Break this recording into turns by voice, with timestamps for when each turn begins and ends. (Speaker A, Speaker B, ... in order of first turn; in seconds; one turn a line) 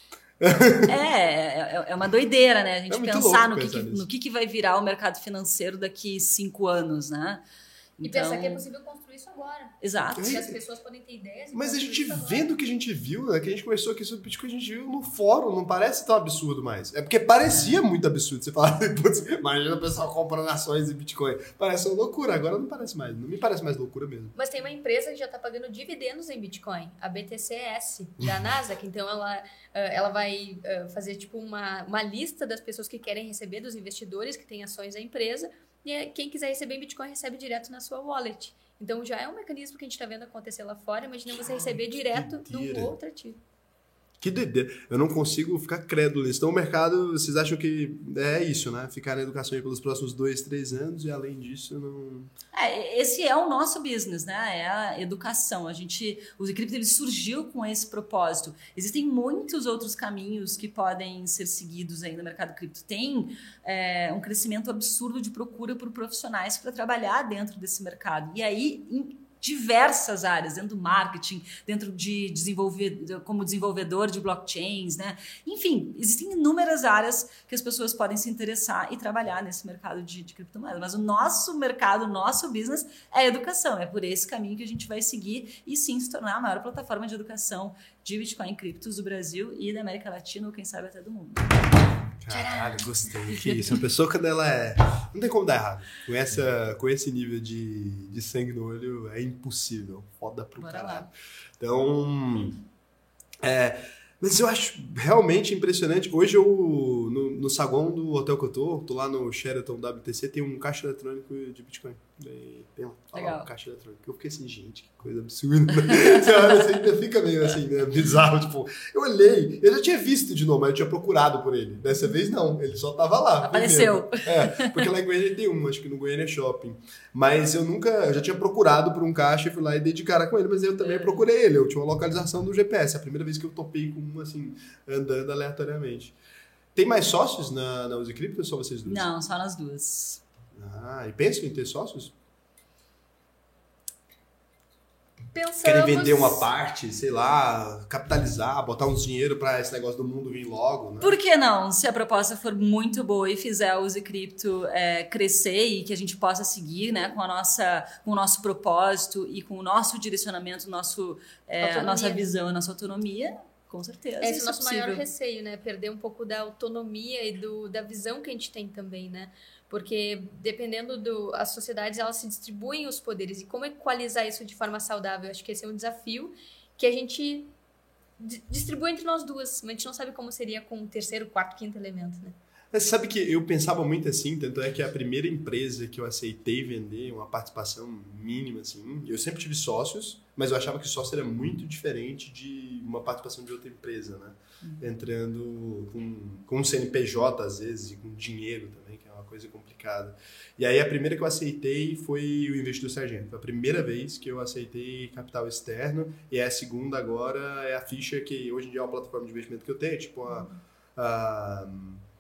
Speaker A: 0.4-0.9
Speaker B: 0.8-7.4
Speaker A: 2.9-4.1
Speaker B: 8.0-8.6
Speaker C: 8.0-12.5
Speaker B: 9.8-10.4
Speaker A: 10.2-10.6
Speaker A: 11.5-24.4
Speaker B: 17.5-17.8
Speaker C: 24.4-43.4
Speaker A: 41.6-42.9
Speaker A: 44.2-52.3
Speaker B: 52.5-91.6
Speaker A: 92.2-102.6
Speaker C: 92.3-92.7
Speaker B: 100.6-101.1
Speaker A: 103.4-136.1
Speaker B: 113.1-113.5
Speaker B: 123.4-124.8
Speaker B: 130.8-131.2
Speaker A: 136.7-139.1
Speaker B: 138.8-140.2
Speaker A: 140.5-142.1
Speaker C: 145.3-146.5
Speaker A: 145.6-151.2
Speaker B: 151.0-165.0
Speaker C: 161.6-162.3
Speaker C: 164.2-177.5
Speaker C: 178.2-182.3
Speaker A: 182.7-212.0